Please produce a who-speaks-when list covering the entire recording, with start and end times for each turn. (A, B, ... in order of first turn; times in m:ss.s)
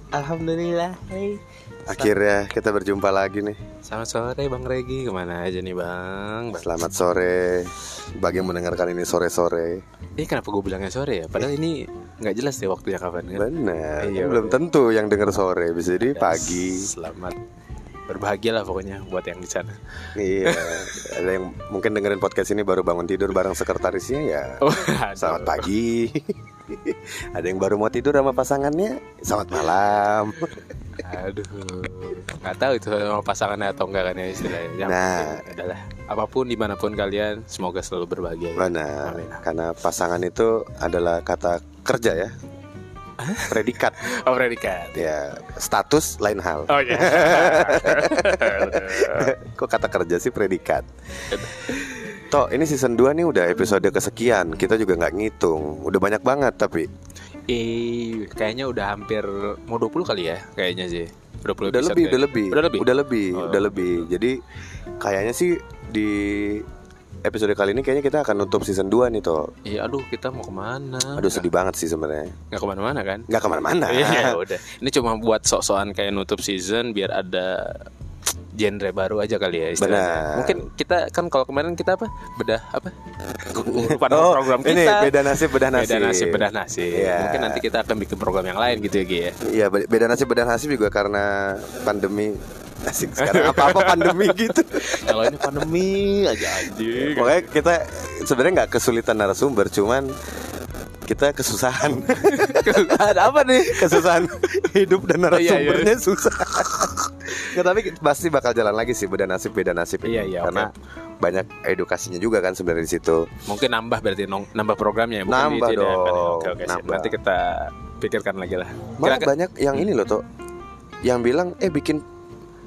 0:00.1-0:01.4 A
0:01.9-0:03.6 B
0:03.8-0:06.8 A
0:06.6-0:09.8 B
0:10.2-0:14.6 A
0:13.4-0:16.9 B
0:16.1-0:17.4 A
0:18.1-0:19.8 A
0:20.2-0:30.7 B
0:20.4-0:21.1 A
0:24.6-0:25.7 A
0:31.0-0:39.4 A
0:34.8-0:35.5 B
0:38.6-0:42.3 B
0:43.2-0:45.1 A
0:43.5-0:44.0 B
0:44.9-0:51.4 B
0:46.7-0:49.3 A
0:51.3-0:52.1 A
0:52.2-0:56.9 B
0:57.5-1:04.1 A
1:01.7-1:04.4 B
1:05.0-1:06.6 B
1:07.2-1:09.5 B
1:09.6-1:11.5 A
1:11.2-1:12.3 B
1:12.5-1:13.3 A
1:13.3-1:14.4 B
1:13.8-1:17.9 A
1:18.6-1:29.4 A
1:19.8-1:20.6 B
1:23.6-1:27.6 B
1:29.4-1:35.3 B
1:33.2-1:37.4 A
1:36.7-1:40.1 B
1:41.1-1:50.7 B
1:42.2-1:44.3 A
1:45.3-1:46.0 A
1:50.0-1:50.7 A
1:51.2-1:53.3 B
1:53.5-1:59.8 A
1:55.3-1:57.2 B
1:59.0-2:00.2 B
2:01.0-2:02.0 B